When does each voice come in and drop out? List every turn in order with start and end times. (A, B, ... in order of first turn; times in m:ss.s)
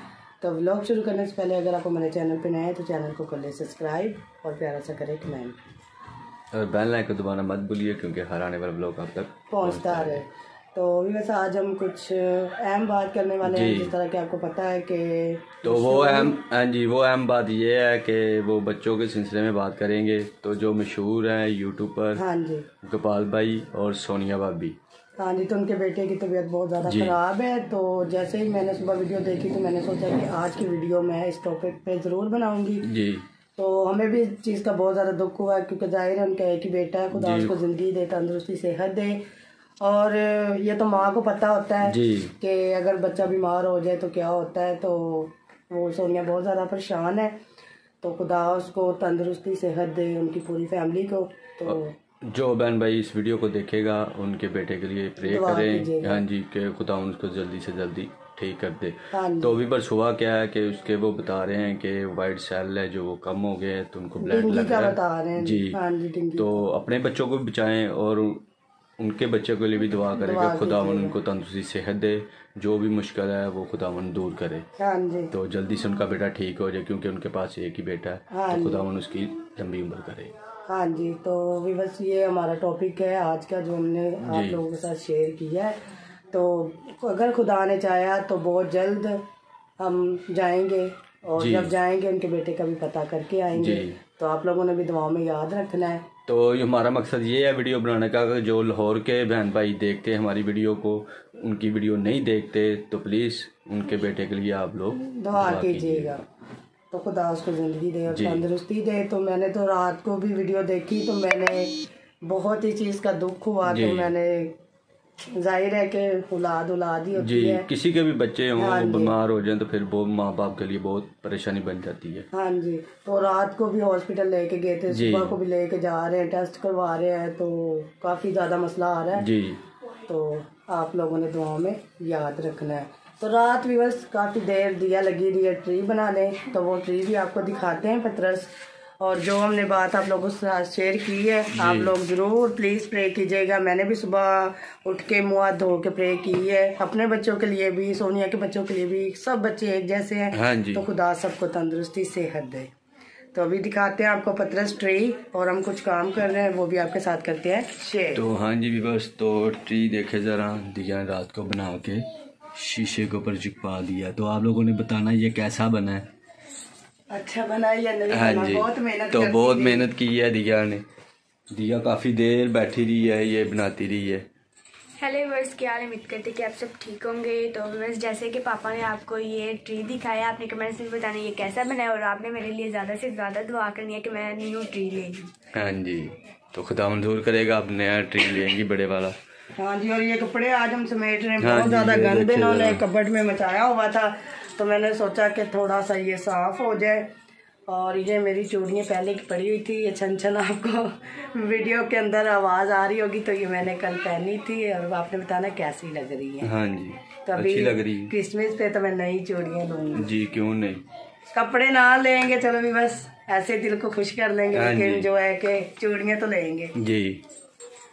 0:00.4-0:05.6 A
0:06.5-0:10.2 B
0:09.5-0:16.3 A
0:13.4-0:13.9 B
0:15.6-0:22.2 B
0:22.2-0:22.7 A
0:22.8-0:24.8 B
0:25.2-0:32.9 A
0:26.8-0:27.1 B
0:32.8-0:33.2 B
0:33.6-0:39.2 A
0:37.1-0:37.5 B
0:39.8-0:47.3 A
0:41.8-0:42.3 B
0:48.0-0:51.9 A
0:51.6-1:05.8 B
0:55.2-0:56.2 A
0:59.1-0:59.6 A
1:04.2-1:06.6 A
1:06.4-1:08.4 B
1:09.0-1:14.6 B
1:10.1-1:11.1 A
1:14.8-1:15.3 A
1:15.3-1:20.3 B
1:18.3-1:18.8 A
1:20.7-1:25.8 A
1:24.2-1:24.6 B
1:26.3-1:29.2 A
1:29.8-1:36.0 A
1:31.4-1:31.7 B
1:33.6-1:34.0 B
1:36.3-1:46.1 B
1:45.0-1:46.2 A
1:46.9-1:51.7 A
1:48.1-1:48.4 B
1:52.2-1:54.5 A
1:53.7-1:54.1 B
1:55.3-1:57.7 A
1:57.2-2:02.3 B
1:58.6-1:59.1 A
2:02.3-2:09.3 A
2:04.9-2:05.4 B
2:09.2-2:09.6 B
2:10.1-2:32.7 A
2:21.6-2:21.9 B
2:30.3-2:30.8 B
2:33.3-2:38.2 A
2:38.1-2:46.1 B
2:47.1-2:49.9 A
2:48.1-2:50.8 B
2:51.5-2:54.2 B
2:55.0-3:05.3 C
3:05.5-3:09.2 B
3:09.6-3:17.1 A
3:11.4-3:12.8 B
3:17.7-3:26.5 A
3:26.4-3:28.1 B
3:27.2-3:30.1 A
3:29.9-3:30.8 B
3:31.3-3:36.7 A
3:34.5-3:35.1 B
3:36.7-3:37.2 B